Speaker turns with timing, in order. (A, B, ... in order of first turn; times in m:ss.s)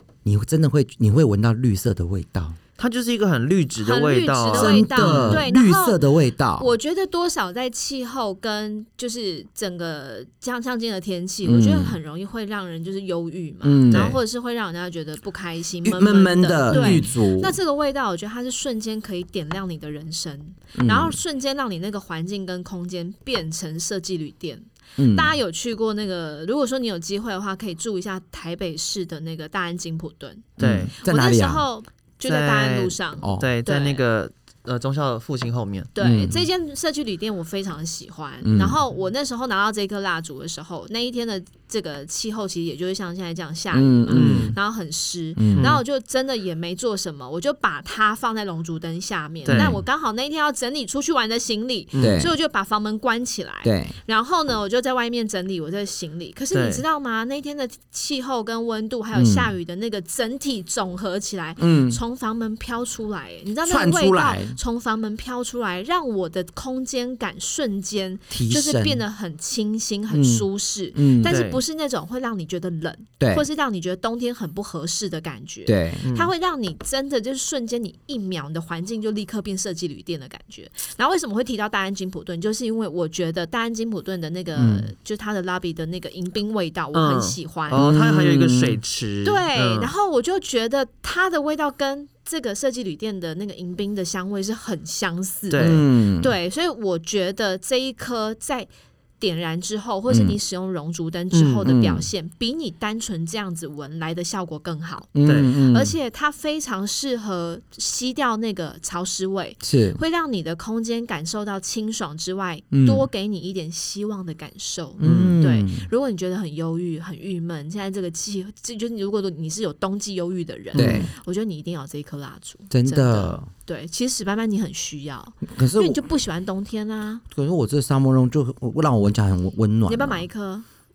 0:00.2-0:02.6 A
0:02.8-0:05.4 B
0:03.8-0:06.0 C
0:04.5-0:06.7 A
0:06.6-0:34.0 C
0:11.4-0:12.0 A
0:13.6-0:14.2 A
0:13.9-0:14.2 B
0:15.8-0:17.6 A
0:16.7-0:17.0 B
0:20.7-0:21.2 A
0:25.0-0:25.4 A
0:30.6-0:30.9 B
0:30.6-0:31.6 A
0:32.2-0:35.9 B
0:33.2-0:33.5 A
0:35.9-1:27.9 C
0:36.0-0:36.4 A
0:38.4-0:38.8 A
0:43.7-0:44.6 A
0:44.1-0:44.6 B
0:45.4-0:45.7 A
0:45.6-0:45.8 B
0:49.4-0:49.7 B
0:49.5-0:49.8 A
0:52.0-0:52.3 A
0:53.6-0:53.9 A
0:56.5-0:56.8 B
0:59.1-0:59.5 A
1:01.6-1:02.0 A
1:03.6-1:04.6 A
1:08.3-1:09.0 A
1:10.1-1:11.4 A
1:11.2-1:11.6 B
1:13.2-1:13.4 A
1:15.7-1:16.0 A
1:16.0-1:16.3 B
1:24.6-1:24.9 A
1:26.9-1:29.9 B
1:27.7-1:28.8 A
1:29.2-2:07.2 C
1:35.5-1:35.8 B
1:35.6-1:36.3 A
1:40.1-1:40.4 A
1:41.3-1:41.7 B
1:41.6-1:42.1 A
1:45.1-1:45.9 A
1:45.2-1:45.6 B
1:49.6-1:50.0 A
1:52.7-1:53.1 A
1:55.0-1:55.9 A
1:55.0-1:55.4 B
2:00.7-2:01.0 B
2:00.7-2:01.1 A
2:02.7-2:03.5 A
2:05.4-2:06.0 A
2:07.3-2:10.2 A
2:09.8-2:10.6 C